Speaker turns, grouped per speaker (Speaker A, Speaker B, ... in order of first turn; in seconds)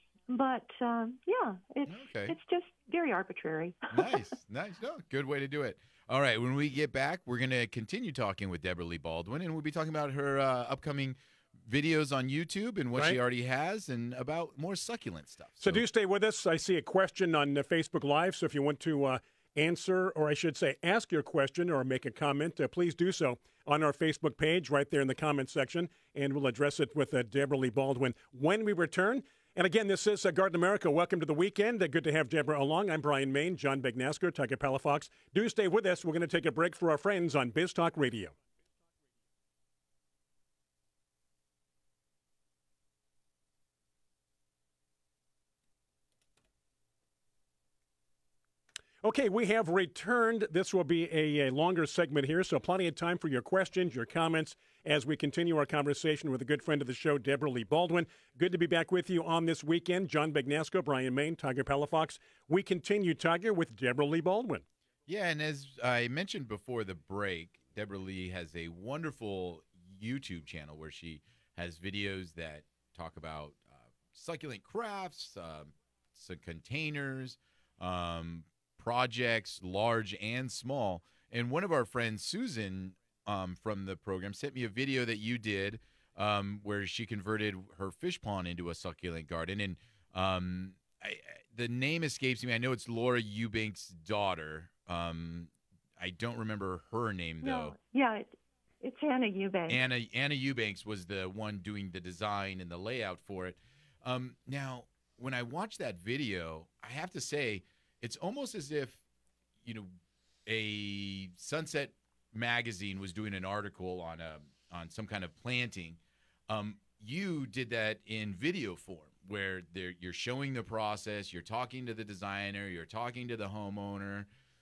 Speaker A: 0.3-4.2, 97.4-99.8
Speaker B: 1.9-2.4, 3.9-15.8, 65.1-97.8, 99.7-109.0, 109.6-109.9, 110.5-124.3
Speaker C: 15.6-38.4, 49.0-64.7